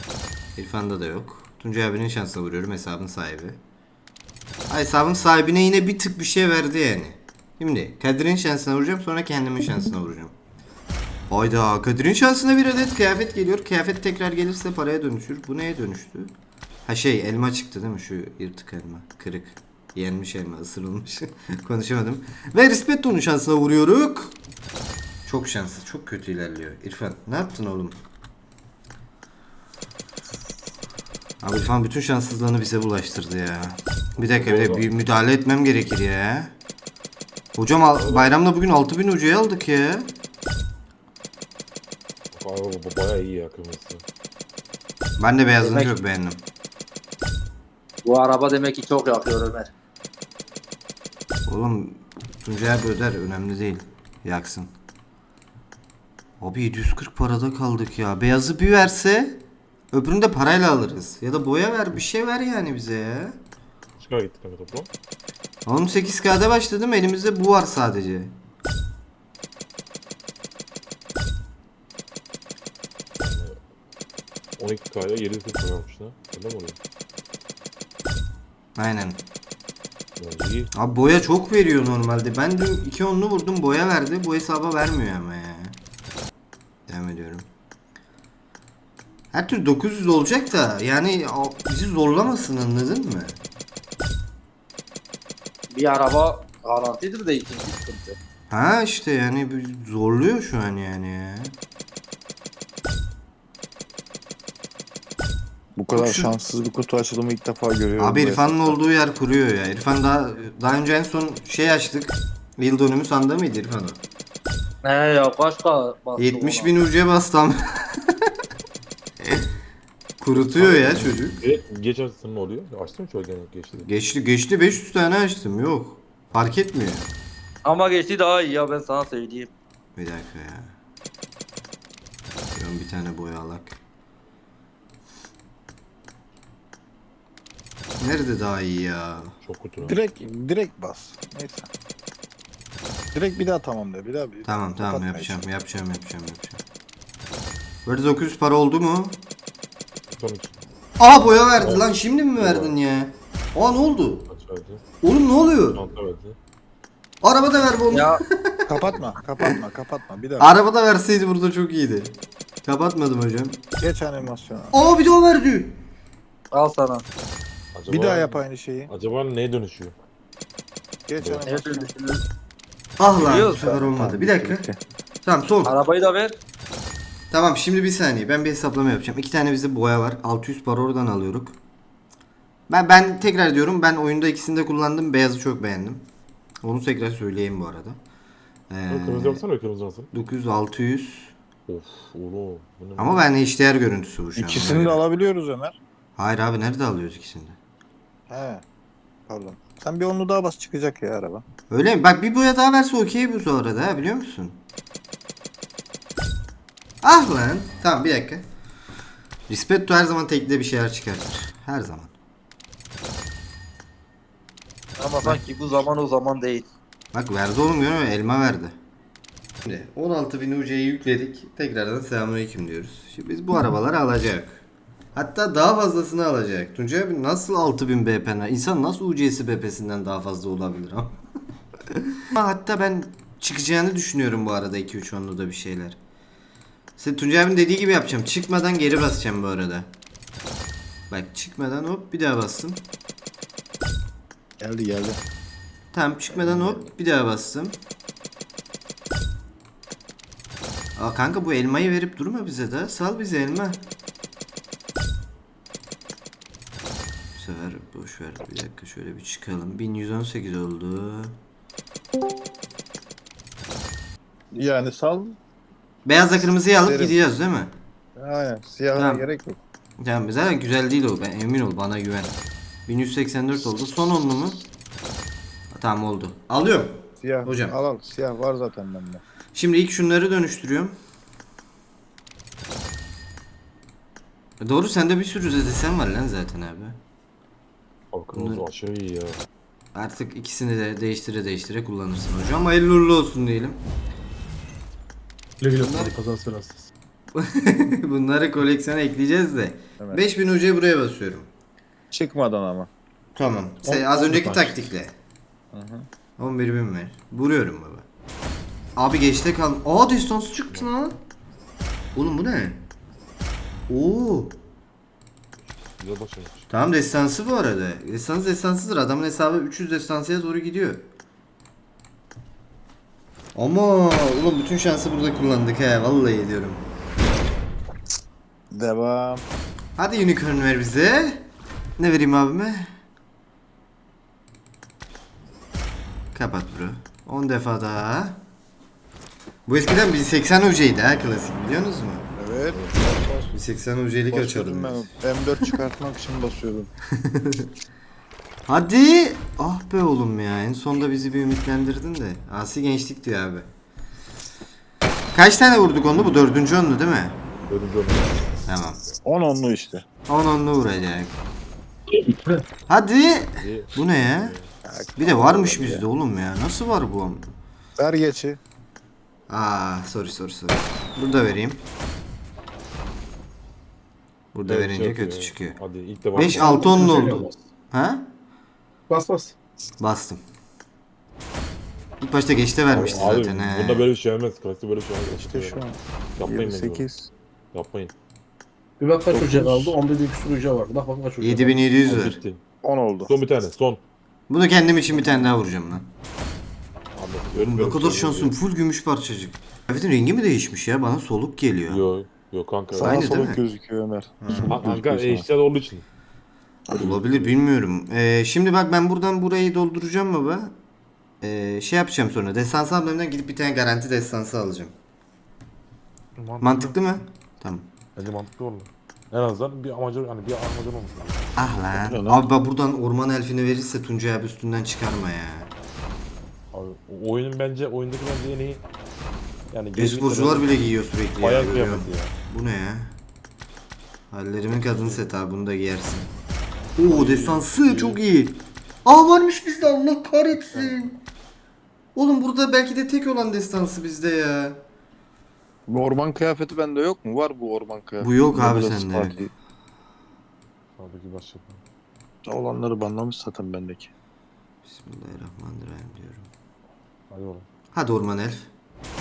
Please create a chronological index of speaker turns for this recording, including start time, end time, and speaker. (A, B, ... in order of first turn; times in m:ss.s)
0:00.6-0:03.6 A
0:04.7-0:10.3 A
0:11.3-0:16.3 A
0:16.9-0:24.4 A
0:25.3-0:28.0 A
0:31.4-0:36.5 A
0:34.2-0:34.9 B
0:37.6-0:40.1 A
0:38.0-0:38.2 B
0:42.3-0:44.0 B
0:45.2-0:46.4 A
0:45.6-0:45.9 C
0:48.0-0:49.7 C
0:51.5-0:54.7 A
0:56.4-0:59.4 A
0:59.9-1:03.4 A
1:04.0-1:04.9 B
1:05.7-1:08.3 A
1:13.2-1:13.6 B
1:14.6-1:16.8 B
1:18.8-1:19.2 A
1:20.2-1:20.7 B
1:20.7-1:25.8 A
1:26.9-1:27.5 A
1:29.3-1:33.4 A
1:35.7-1:38.2 C
1:38.5-1:41.6 A
1:45.8-1:48.8 D
1:45.9-1:46.3 A
1:48.0-1:54.0 A
1:54.8-1:56.7 C
1:56.2-1:57.6 A
2:00.2-2:01.4 A
2:00.3-2:03.9 B
2:03.8-2:07.1 A
2:07.6-2:09.5 C
2:10.0-2:10.7 A
2:12.6-2:13.8 A
2:18.0-2:19.3 A
2:19.4-2:20.0 B
2:19.8-2:21.7 D
2:23.1-2:25.4 D
2:24.5-2:26.6 A
2:27.9-2:29.2 A
2:30.1-2:30.6 B
2:31.0-2:34.3 A
2:31.6-2:32.8 B
2:34.3-2:34.8 B
2:35.0-2:35.8 A
2:35.7-2:36.4 B
2:37.2-2:38.6 A
2:37.9-2:38.2 C
2:38.7-2:40.5 D
2:40.4-2:43.6 A
2:43.8-2:44.8 D
2:44.7-2:45.8 A
2:46.5-2:47.1 C
2:47.8-2:50.0 B
2:47.9-2:48.9 D
2:51.1-2:51.9 D
2:51.2-2:51.4 B
2:51.5-2:52.2 C
2:53.0-2:54.6 A
2:53.2-2:53.6 C
2:53.5-2:54.8 D
2:55.2-2:55.8 A
2:55.6-2:56.4 C
2:57.3-3:01.6 A
3:02.7-3:06.0 A
3:06.6-3:08.0 A
3:08.7-3:09.4 A
3:08.9-3:10.1 B
3:10.1-3:11.4 A
3:11.7-3:13.2 B
3:13.0-3:15.0 A
3:14.4-3:15.8 D
3:16.2-3:17.6 A
3:18.3-3:18.6 D
3:19.3-3:21.4 D
3:21.7-3:24.6 A
3:27.0-3:28.4 A
3:29.5-3:32.1 A
3:35.0-3:36.7 C
3:35.3-3:35.9 D
3:37.1-3:38.8 A
3:39.6-3:44.6 A
3:45.2-3:51.2 A
3:52.2-3:56.0 A
3:57.0-3:59.9 A
4:01.1-4:02.9 A
4:04.6-4:05.2 D
4:05.9-4:07.8 A
4:06.4-4:06.8 D
4:11.0-4:13.8 A
4:17.4-4:21.4 A
4:24.5-4:25.4 D
4:26.0-4:27.7 A
4:26.8-4:27.2 D
4:28.2-4:29.6 D
4:29.0-4:29.2 A
4:30.0-4:32.4 A
4:32.9-4:34.6 A
4:35.7-4:37.8 A
4:37.2-4:39.2 D
4:39.5-4:41.0 A
4:44.6-4:47.0 A
4:48.1-4:49.4 B
4:48.3-4:48.6 A
4:49.9-4:53.8 A
4:55.6-4:56.9 E
4:55.7-4:56.2 A
4:57.4-5:01.5 A
5:02.1-5:02.9 D
5:03.4-5:05.1 A
5:03.8-5:04.7 E
5:05.7-5:06.1 D
5:06.4-5:08.1 A
5:09.0-5:11.2 A
5:12.2-5:12.8 A
5:13.9-5:14.6 A
5:15.7-5:16.7 B
5:16.7-5:21.1 A
5:23.6-5:26.8 A
5:28.7-5:29.4 D
5:30.0-5:31.5 A
5:32.0-5:32.9 A
5:36.3-5:38.4 A
5:39.7-5:42.3 A
5:42.4-5:43.6 D
5:42.7-5:43.0 B
5:43.5-5:45.1 A
5:44.3-5:46.9 D
5:47.2-5:47.6 A
5:48.7-5:53.7 A
5:55.3-5:57.4 A
5:57.7-5:59.2 B
5:58.7-5:59.0 A
5:59.2-6:00.1 D
6:00.3-6:01.4 A
6:02.9-6:04.6 A
6:03.6-6:04.7 B
6:04.8-6:06.0 D
6:05.2-6:07.4 A
6:08.0-6:08.6 D
6:09.5-6:11.8 A
6:14.5-6:15.8 A
6:14.7-6:17.5 B
6:16.4-6:18.3 A
6:16.6-6:17.5 E
6:19.1-6:19.6 E
6:20.0-6:20.4 A
6:22.2-6:24.0 A
6:22.9-6:25.8 B
6:25.3-6:27.3 D
6:26.4-6:27.1 B
6:27.7-6:28.1 B
6:29.0-6:31.8 E
6:29.6-6:30.0 B
6:31.4-6:32.4 A
6:32.0-6:32.6 B
6:32.8-6:33.4 D
6:33.3-6:34.0 B
6:34.5-6:36.1 A
6:37.2-6:38.6 B
6:37.5-6:42.0 A
6:41.9-6:43.5 B
6:42.9-6:45.5 D
6:43.0-6:43.6 A
6:44.4-6:44.8 A
6:44.6-6:46.0 B
6:46.9-6:47.6 B
6:46.9-6:50.7 A
6:51.4-6:54.9 A
6:56.4-6:57.0 B
6:56.6-6:57.9 A
6:58.2-7:01.6 B
7:01.6-7:05.7 A
7:02.0-7:02.4 D
7:06.7-7:08.8 B
7:09.7-7:10.8 B
7:10.0-7:13.1 A
7:11.4-7:12.3 B
7:14.3-7:16.3 A
7:14.8-7:15.2 B
7:17.0-7:21.2 A
7:17.0-7:18.2 B
7:22.2-7:24.8 A
7:25.9-7:29.5 D
7:28.2-7:29.4 A
7:31.0-7:31.8 B
7:32.5-7:34.1 D
7:34.8-7:36.5 A
7:37.3-7:37.7 B
7:37.9-7:38.7 A